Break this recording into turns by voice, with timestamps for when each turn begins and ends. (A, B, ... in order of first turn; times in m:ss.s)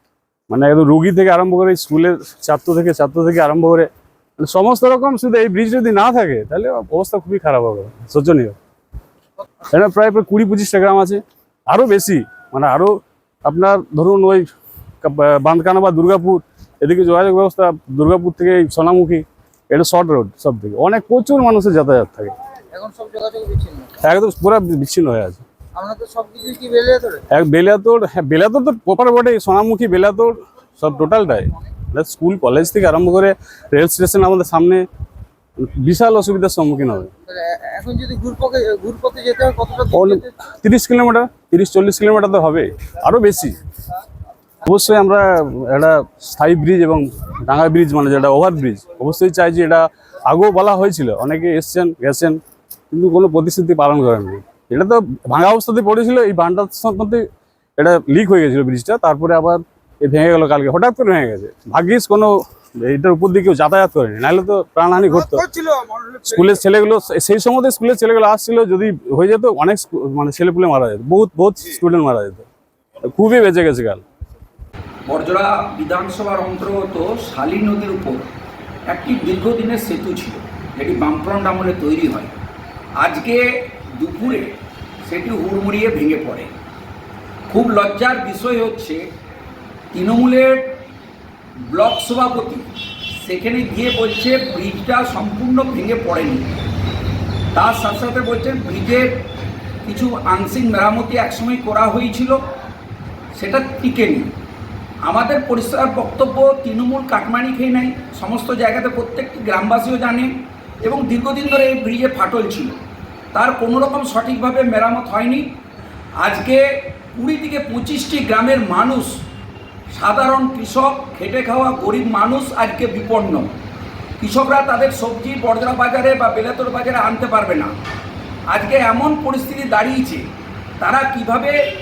0:00.5-0:08.6 A
0:09.7-0:14.5 A
0:15.0-0:22.3 A
0:22.7-0:23.9 B
0:24.0-0:25.4 A
0:25.7-0:27.2 B
0:27.3-0:34.8 A
0:35.6-0:37.1 A
0:37.3-0:40.1 B
0:39.9-0:43.6 A
0:44.6-0:52.4 A
0:52.9-0:57.3 A
0:57.8-1:05.5 A
1:05.6-1:06.2 B
1:06.1-1:12.4 A
1:13.0-1:14.0 A
1:15.1-1:18.3 C
1:18.9-1:22.3 C
1:23.0-1:23.4 C
1:24.0-1:24.5 C
1:25.0-1:26.5 C
1:27.5-1:29.1 C
1:29.9-1:30.7 C
1:31.7-1:32.7 C
1:33.2-1:36.5 C
1:37.6-1:39.1 C
1:39.8-1:42.4 C
1:43.4-1:44.3 C
1:45.1-1:50.3 C
1:50.8-1:52.8 C
1:53.3-1:55.4 C
1:56.2-1:56.6 C
1:57.2-1:59.1 C
1:59.9-2:03.5 C
2:04.2-2:07.7 C
2:08.5-2:10.2 C
2:10.8-2:11.5 C